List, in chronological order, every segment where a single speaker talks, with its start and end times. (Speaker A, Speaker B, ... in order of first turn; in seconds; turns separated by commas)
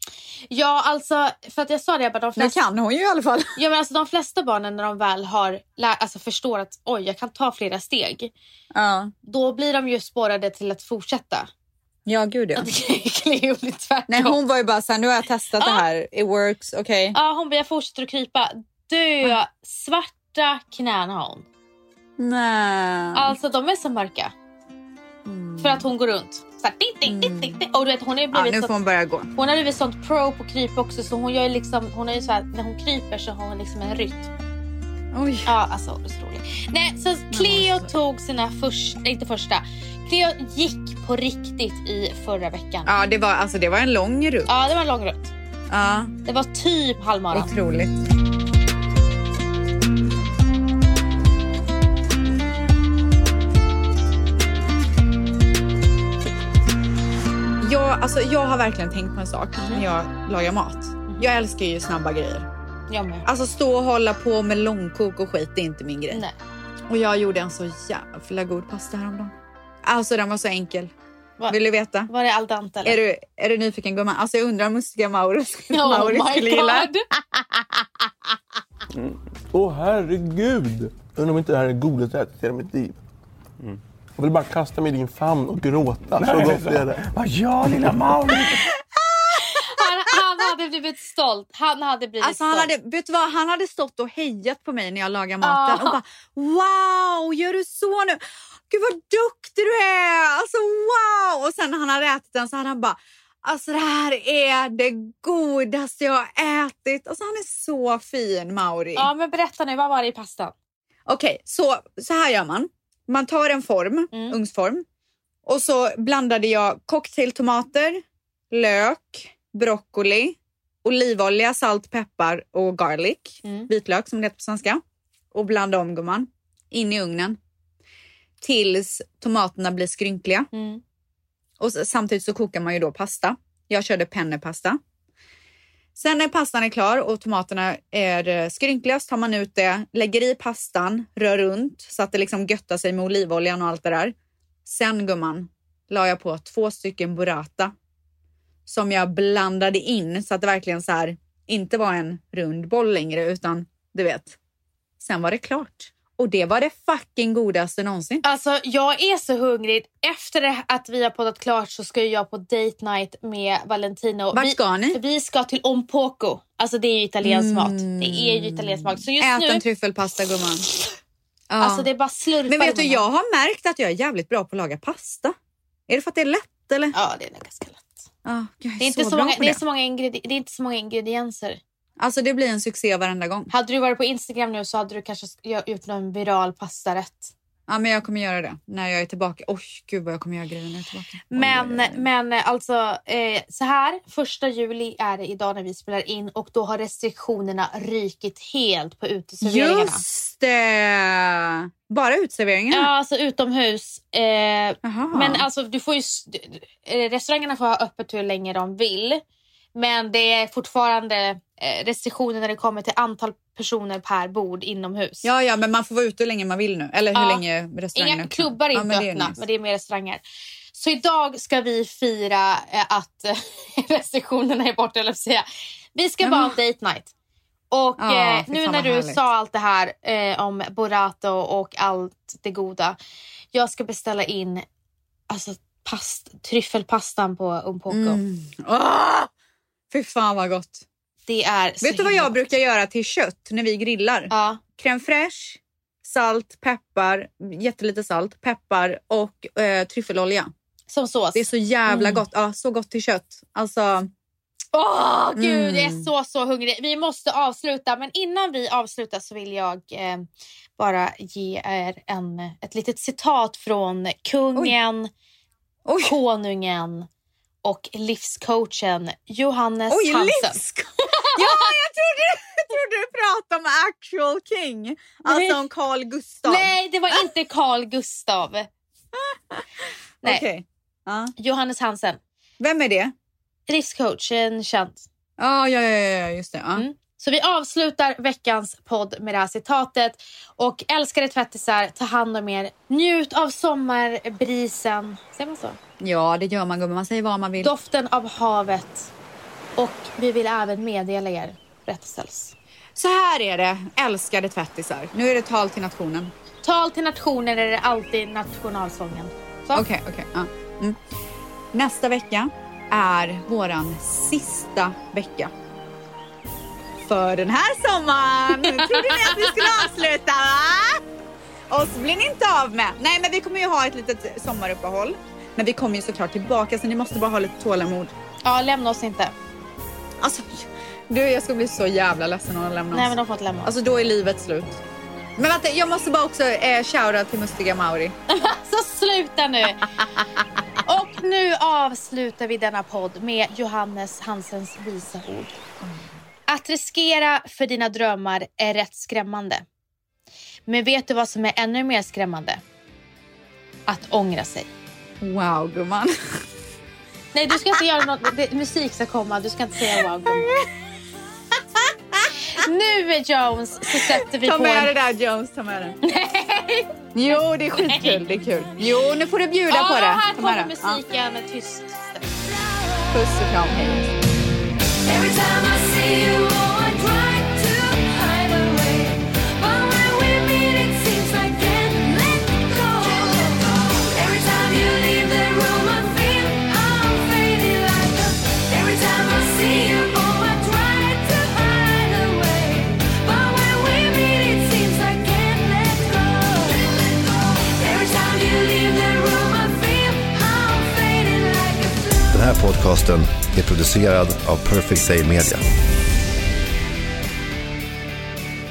Speaker A: 0.5-2.6, Speaker B: 2.4-3.6, Speaker A: 3.6-8.3, Speaker B: 8.7-9.1, Speaker A: 9.2-11.5, Speaker B: 12.1-12.7, Speaker A: 12.6-14.4, Speaker B: 14.1-17.2, Speaker A: 15.6-15.8, Speaker A: 17.1-21.5, Speaker B: 22.2-23.4, Speaker A: 23.1-24.3, Speaker B: 25.2-25.9, Speaker A: 25.6-28.7, Speaker B: 27.1-27.6, Speaker B: 28.3-29.3, Speaker A: 29.4-34.3, Speaker B: 35.1-35.5, Speaker A: 35.5-42.9, Speaker B: 37.3-37.9, Speaker B: 42.9-44.5, Speaker A: 44.5-45.3, Speaker B: 45.7-46.1, Speaker A: 46.2-47.5, Speaker B: 47.3-48.0, Speaker B: 57.6-62.5, Speaker A: 59.6-59.9, Speaker A: 62.9-63.3, Speaker B: 63.3-66.2, Speaker B: 66.9-70.9, Speaker A: 71.4-73.0, Speaker B: 71.5-72.1, Speaker B: 72.8-78.1, Speaker A: 75.7-77.0, Speaker C: 79.0-83.0, Speaker C: 84.2-88.6, Speaker B: 88.5-90.2, Speaker A: 89.3-92.7, Speaker B: 92.2-109.1, Speaker A: 95.4-96.0, Speaker A: 109.0-110.5, Speaker B: 111.1-114.8, Speaker A: 114.1-114.4, Speaker B: 115.5-127.4, Speaker A: 123.4-123.7, Speaker B: 128.4-130.5, Speaker A: 130.5-130.8, Speaker B: 131.6-134.8, Speaker B: 135.9-144.1, Speaker B: 144.7-147.7, Speaker B: 148.7-154.4, Speaker B: 155.0-158.2, Speaker A: 158.2-169.6, Speaker B: 164.3-165.0, Speaker B: 167.2-170.7, Speaker B: 171.5-171.9, Speaker A: 171.6-173.1, Speaker B: 172.5-175.4, Speaker B: 175.9-176.9, Speaker A: 176.9-178.1, Speaker B: 178.2-179.6, Speaker A: 178.8-181.6, Speaker B: 182.0-183.5, Speaker A: 183.5-187.3, Speaker B: 187.7-192.1, Speaker A: 191.3-200.0, Speaker B: 199.4-202.9, Speaker A: 202.7-209.2, Speaker B: 204.8-205.5, Speaker A: 209.8-215.3, Speaker B: 215.2-219.4, Speaker A: 217.1-220.2, Speaker A: 220.7-227.1, Speaker B: 226.2-226.6, Speaker A: 227.7-233.0, Speaker B: 228.0-229.2, Speaker A: 233.5-234.7, Speaker A: 235.3-238.2, Speaker B: 237.9-239.3, Speaker B: 239.9-240.9, Speaker A: 241.3-242.4, Speaker B: 241.8-250.5, Speaker A: 244.3-244.6, Speaker A: 250.9-252.2, Speaker B: 251.3-254.1, Speaker A: 254.7-260.3, Speaker B: 255.4-256.1, Speaker A: 260.8-265.1, Speaker B: 265.9-266.2, Speaker A: 266.0-267.1, Speaker A: 267.6-270.6, Speaker B: 269.9-277.2, Speaker A: 271.1-271.7, Speaker A: 275.3-275.6, Speaker A: 276.4-278.7, Speaker B: 279.3-279.7, Speaker B: 280.2-281.3, Speaker A: 281.4-282.2, Speaker B: 282.6-283.1, Speaker A: 283.7-285.1, Speaker B: 285.4-286.9, Speaker A: 286.8-295.8, Speaker B: 296.0-297.7, Speaker A: 297.6-299.1, Speaker A: 299.8-302.6, Speaker B: 302.9-306.3, Speaker A: 306.6-309.9, Speaker B: 309.7-311.0, Speaker B: 311.7-315.5, Speaker B: 317.0-321.0, Speaker A: 318.5-319.8, Speaker B: 321.7-328.1, Speaker A: 328.4-329.3, Speaker B: 330.2-334.8, Speaker A: 332.9-333.7, Speaker B: 335.4-338.2, Speaker A: 338.3-339.8, Speaker A: 340.9-345.6, Speaker B: 345.8-346.1, Speaker A: 346.5-349.6, Speaker A: 350.7-352.6, Speaker A: 353.9-354.7, Speaker B: 355.2-356.1, Speaker A: 357.3-360.5, Speaker B: 359.9-360.7, Speaker B: 361.6-362.3, Speaker A: 362.5-364.9, Speaker B: 363.9-366.0, Speaker A: 366.0-368.2, Speaker B: 367.1-371.0, Speaker A: 369.7-372.4, Speaker B: 373.1-374.1, Speaker D: 375.0-402.5, Speaker E: 402.3-405.6